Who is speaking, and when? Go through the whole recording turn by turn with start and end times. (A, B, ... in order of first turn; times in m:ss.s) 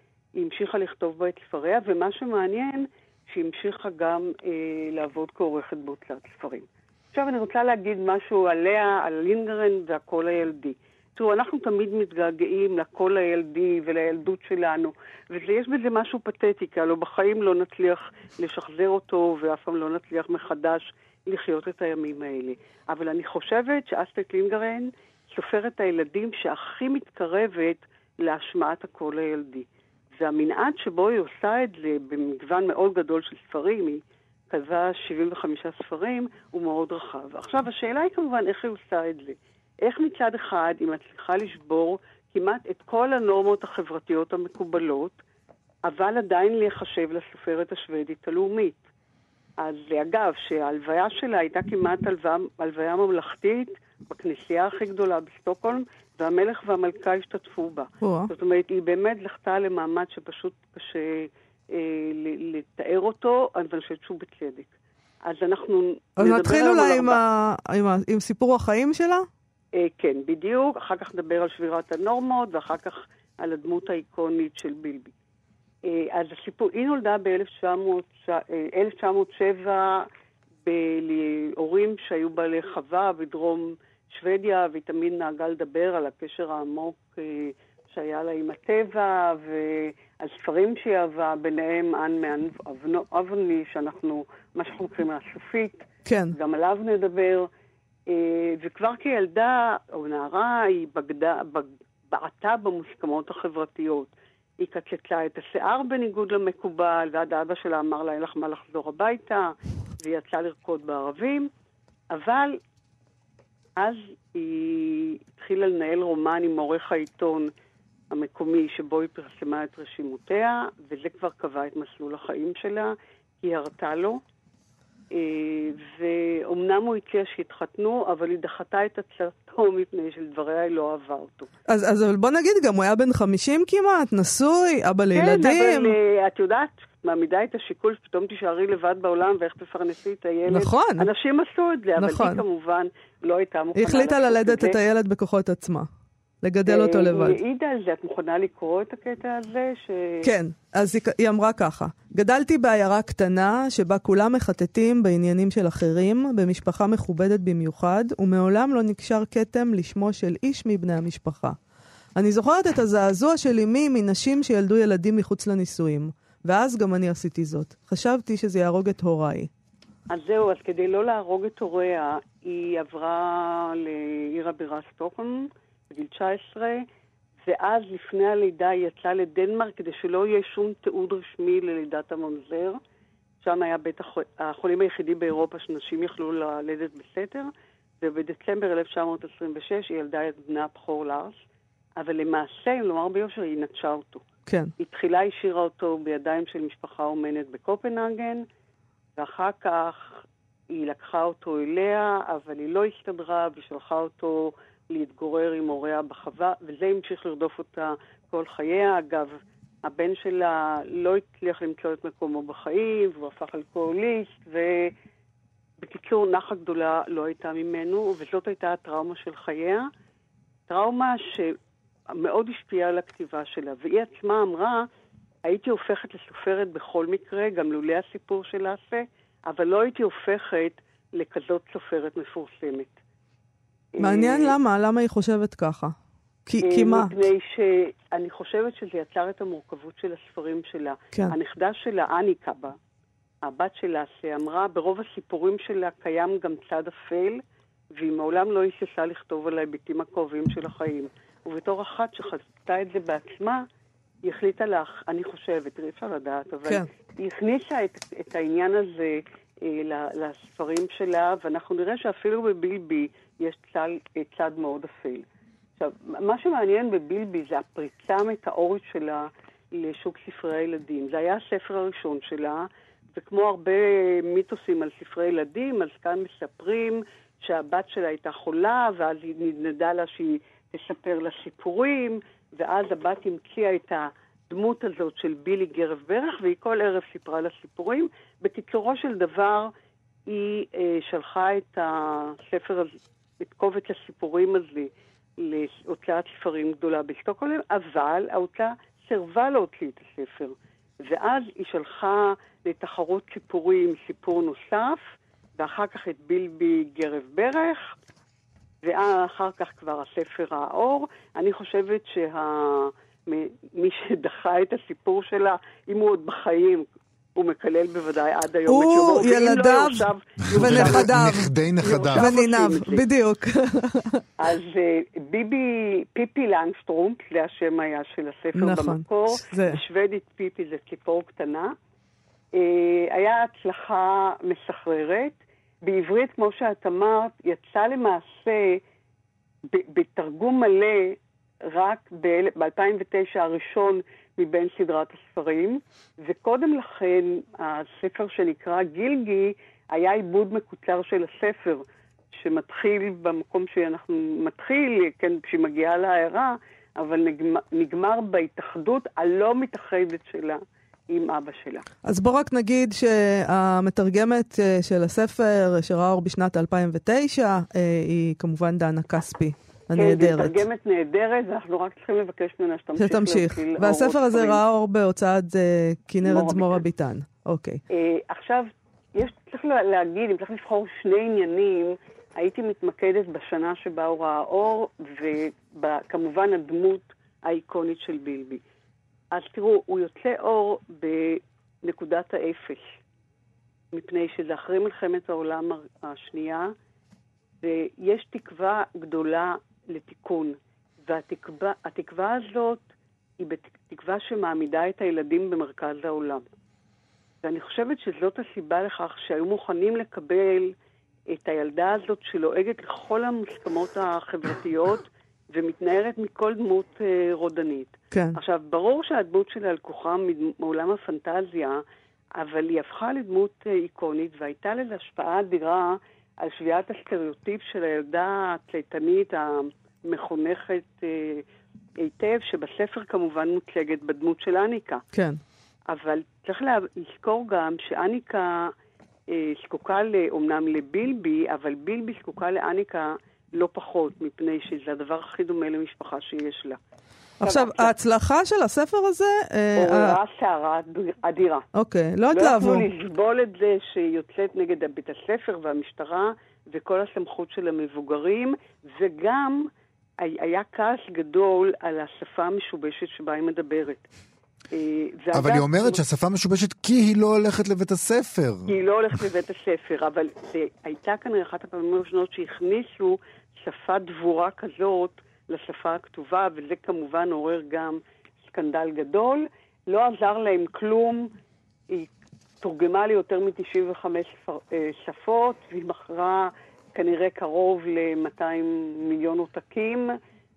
0:00.4-0:45.2 A
0:45.9-0:48.8 A
0:49.6-1:04.7 A
0:58.0-0:58.3 B
1:05.2-1:07.2 A
1:06.2-1:09.3 B
1:09.7-1:15.1 A
1:15.8-1:20.1 A
1:20.6-1:37.5 A
1:36.1-1:36.4 B
1:38.1-1:51.5 A
1:52.1-1:52.6 A
1:53.8-1:57.5 A
1:58.1-2:04.2 A
2:05.1-2:11.5 A
2:11.7-2:15.9 B
2:15.2-2:24.8 A
2:20.5-2:21.1 B
2:22.0-2:22.4 B
2:23.8-2:25.9 B
2:26.4-2:27.4 B
2:26.6-2:30.3 A
2:30.2-2:41.6 B
2:42.2-2:49.5 B
2:50.1-2:56.8 A
2:57.4-3:02.8 A
3:03.4-3:07.5 A
3:08.0-3:11.4 A
3:12.0-3:14.2 A
3:14.8-3:18.4 A
3:19.2-3:20.2 A
3:20.7-3:34.9 A
3:35.8-3:39.9 A
3:40.7-3:41.6 A
3:42.2-3:44.8 A
3:45.4-3:52.9 A
3:54.0-3:54.5 A
3:54.0-3:56.0 B
3:56.5-3:57.1 B
3:56.6-4:02.8 A
4:03.4-4:07.4 A
4:08.0-4:13.6 A
4:14.2-4:25.2 A
4:25.8-4:49.7 A
4:50.3-5:05.0 A
5:05.6-5:07.9 A
5:08.8-5:21.2 A
5:18.7-5:21.5 B
5:20.5-5:22.3 C
5:21.8-5:23.0 A
5:22.2-5:24.2 B
5:24.4-5:31.8 A
5:28.6-5:29.8 B
5:32.5-5:38.8 A
5:39.7-5:51.8 A
5:52.4-6:01.9 A
6:02.0-6:10.6 B
6:10.0-6:14.6 A
6:13.0-6:17.8 B
6:16.2-6:16.8 A
6:17.9-6:28.6 A
6:29.3-6:32.8 A
6:33.9-6:36.7 A
6:37.6-6:42.8 A
6:43.4-6:46.4 A
6:47.4-6:50.7 A
6:51.3-7:01.8 A
6:58.1-6:58.4 B
7:02.4-7:11.4 A
7:12.0-7:15.0 A
7:15.1-7:15.4 B
7:15.9-7:18.7 A
7:19.3-7:26.8 A
7:27.4-7:30.2 B
7:27.4-7:27.9 A
7:29.8-7:31.7 A
7:31.8-7:32.8 B
7:32.3-7:39.7 A
7:40.2-7:44.0 A
7:44.7-7:46.0 A
7:45.3-7:48.7 C
7:48.7-8:01.3 A
8:02.6-8:10.1 A